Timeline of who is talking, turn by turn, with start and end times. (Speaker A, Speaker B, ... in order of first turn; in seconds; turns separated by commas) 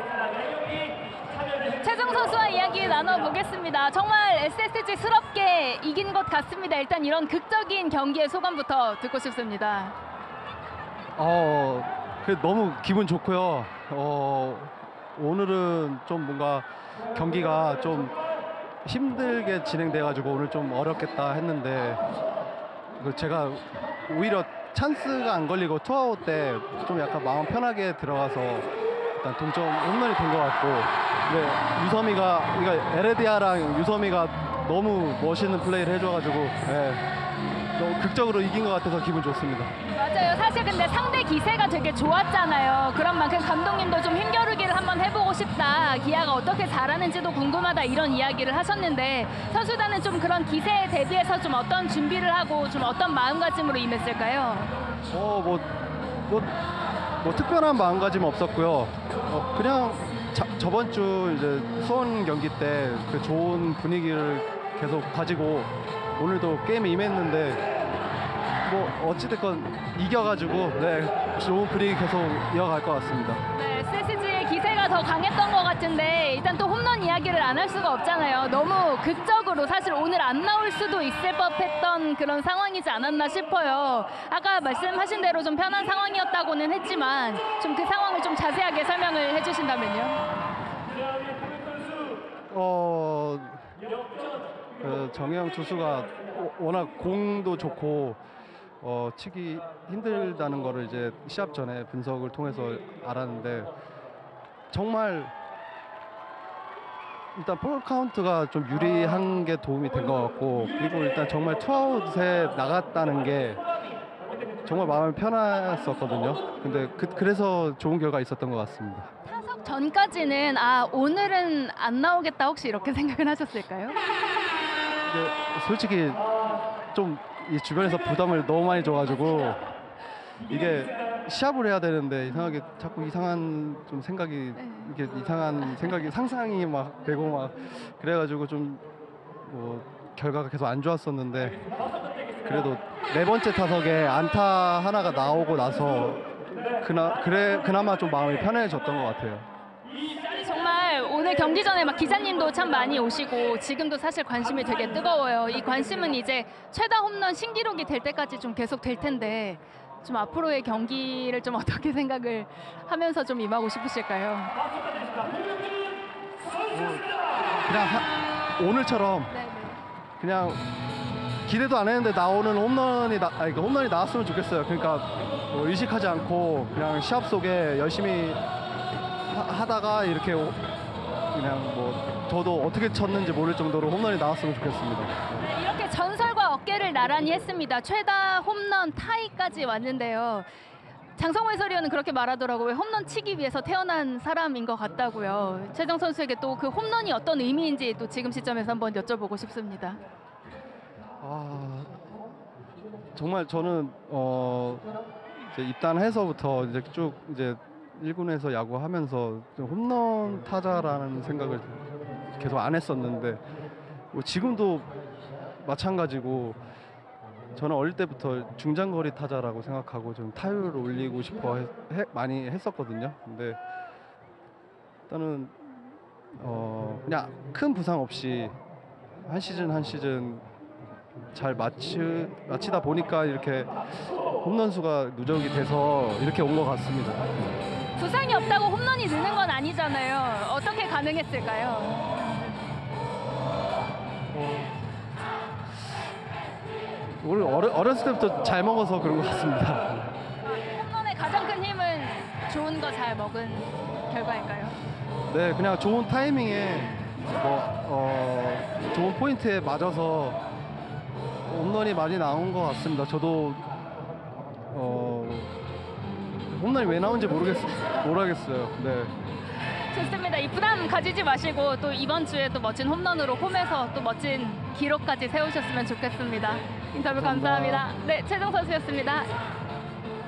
Speaker A: 1.7-9.9, Speaker B: 11.2-18.1, Speaker B: 18.8-22.0, Speaker B: 23.0-37.0, Speaker B: 37.8-39.7, Speaker A: 39.9-54.7, Speaker B: 55.1-55.7, Speaker B: 57.2-67.6, Speaker B: 68.6-73.4, Speaker A: 73.5-90.2, Speaker B: 92.5-93.7, Speaker B: 94.8-98.2, Speaker B: 98.8-103.7, Speaker B: 104.7-105.3, Speaker B: 107.3-113.6, Speaker B: 114.6-119.1, Speaker A: 119.2-124.0, Speaker B: 125.1-126.2, Speaker B: 126.9-129.6, Speaker B: 130.5-138.8, Speaker A: 134.6-134.9, Speaker B: 139.4-141.6, Speaker B: 142.4-146.2, Speaker B: 146.8-149.5, Speaker A: 150.1-164.6, Speaker B: 166.7-167.1, Speaker B: 167.7-169.3, Speaker A: 169.3-169.8, Speaker B: 170.2-170.6, Speaker B: 171.4-178.4, Speaker B: 179.3-180.6, Speaker B: 181.3-185.3, Speaker A: 185.4-190.5, Speaker A: 191.2-200.0, Speaker B: 201.2-202.0, Speaker B: 203.1-204.9, Speaker B: 205.5-211.8, Speaker B: 212.3-213.4, Speaker B: 214.1-214.9, Speaker B: 215.6-216.6, Speaker B: 217.5-223.6, Speaker B: 225.1-225.6, Speaker B: 226.3-228.5, Speaker B: 229.2-230.4, Speaker B: 231.3-233.8, Speaker B: 234.4-237.2, Speaker A: 237.9-242.4, Speaker B: 244.3-244.7, Speaker B: 247.2-250.2, Speaker A: 250.4-254.8, Speaker B: 255.3-260.4, Speaker B: 261.5-263.7, Speaker B: 264.7-265.5, Speaker B: 266.5-269.1, Speaker A: 269.9-279.3, Speaker B: 277.1-277.9